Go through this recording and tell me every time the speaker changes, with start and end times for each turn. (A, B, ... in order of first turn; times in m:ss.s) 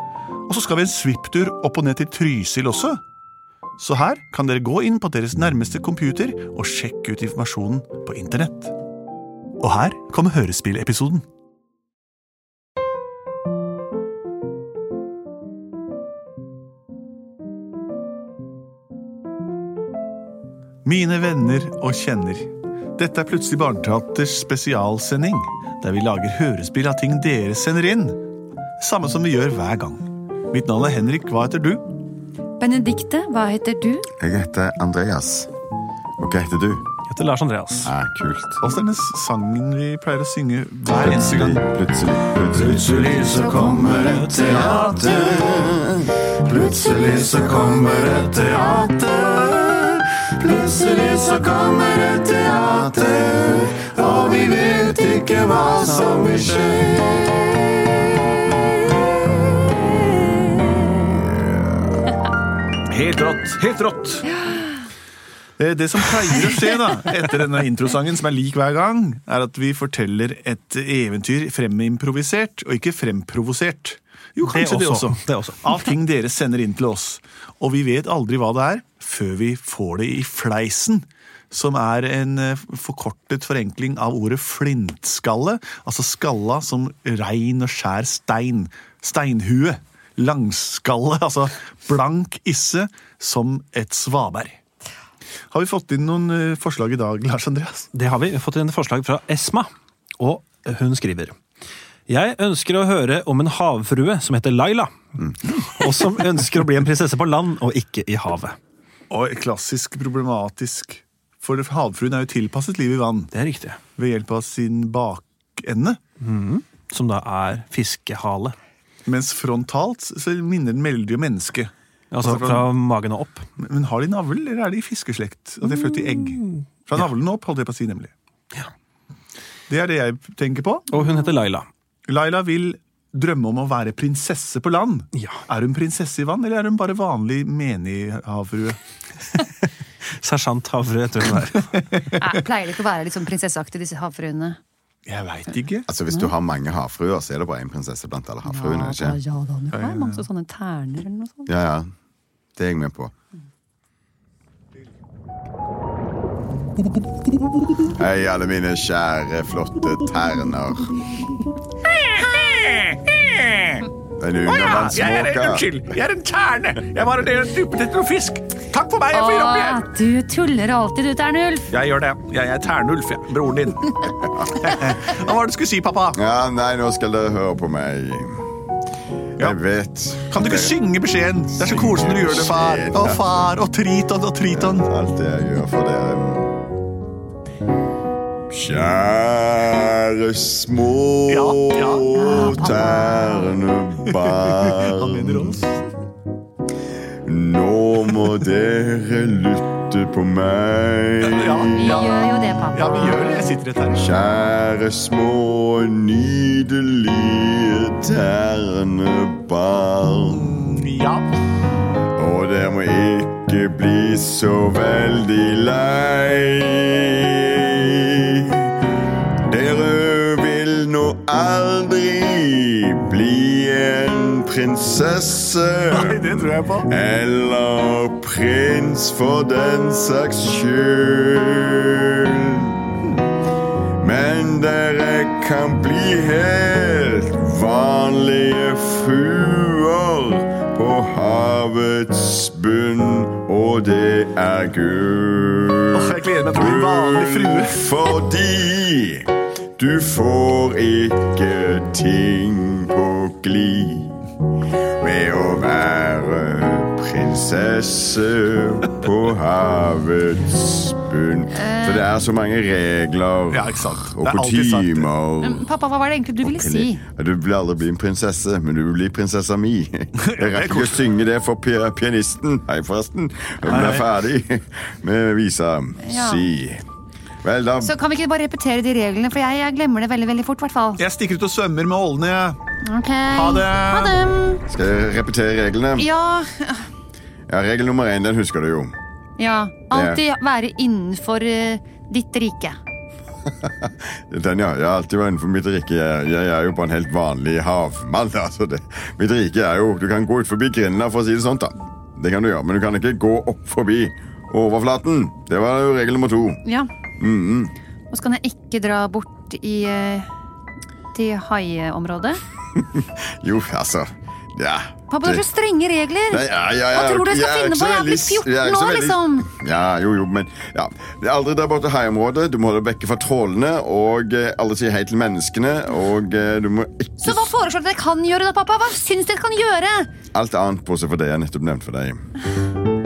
0:00.5-0:03.0 A
0:03.8-0:08.7 A
0:09.6-0:11.2 A
0:20.8-0:28.2 A
0:28.8-0:31.8 A
0:32.6-0:34.1 B
0:34.2-0:35.5 C
0:36.2-0:36.9 C
0:37.1-0:37.9 D
0:37.8-0:38.6 C
0:38.6-0:41.6 A
0:40.9-0:46.1 C
0:42.5-0:45.5 A
0:46.4-0:57.3 A
1:01.0-1:02.1 C
1:02.9-1:04.2 A
1:04.4-1:04.7 B
1:05.6-1:34.6 A
1:14.4-1:15.9 D
1:35.5-1:37.9 A
1:37.9-1:41.4 D
1:42.1-1:48.6 D
1:49.1-1:53.3 A
1:53.3-1:53.8 D
1:54.0-1:56.0 A
1:56.2-1:58.6 D
1:59.0-2:02.7 A
2:02.1-2:03.4 D
2:03.6-2:08.1 A
2:05.7-2:06.6 D
2:09.7-2:10.9 A
2:10.9-2:11.7 D
2:12.1-2:18.8 A
2:15.2-2:15.4 D
2:20.2-2:21.9 D
2:22.2-2:24.6 B
2:25.0-2:25.9 A
2:25.9-2:29.2 C
2:28.4-2:31.5 B
2:29.7-2:30.2 A
2:31.5-2:31.9 C
2:32.6-2:33.1 C
2:37.9-2:41.2 C
2:41.9-2:43.9 A
2:44.2-2:45.8 C
2:44.4-2:49.8 A
2:49.1-2:51.7 B
2:51.7-2:56.2 A
2:54.4-2:54.6 C
2:56.1-2:58.4 C
2:59.4-3:00.7 C
3:00.3-3:04.9 A
3:01.5-3:03.4 C
3:04.5-3:06.6 C
3:08.5-3:15.6 C
3:11.3-3:12.3 A
3:12.1-3:13.6 B
3:14.0-3:15.8 A
3:17.2-3:21.9 C
3:21.2-3:24.1 A
3:21.7-3:23.3 B
3:24.0-3:30.4 C
3:30.3-3:31.3 A
3:32.2-3:38.8 C
3:39.5-3:52.9 C
3:45.9-3:46.9 A
3:54.0-4:14.2 C
4:05.9-4:07.8 A
4:15.0-4:25.7 C
4:21.5-4:22.0 B
4:23.5-4:25.1 A
4:25.4-4:27.0 B
4:26.4-4:36.8 C
4:30.2-4:31.1 A
4:33.6-4:34.1 A
4:36.0-4:36.5 B
4:37.4-4:37.9 C
4:37.8-4:41.0 B
4:41.0-4:42.6 A
4:42.8-4:44.6 B
4:43.3-4:44.2 A
4:44.7-4:46.1 C
4:46.0-4:46.9 B
4:47.5-4:49.0 C
4:49.4-4:52.8 B
4:49.9-4:50.2 C
4:53.5-5:06.6 C
5:07.2-5:07.7 C
5:08.1-5:10.3 B
5:11.1-5:12.4 B
5:12.7-5:15.4 C
5:15.1-5:19.5 B
5:16.3-5:27.5 C
5:27.2-5:30.1 B
5:30.3-5:32.2 C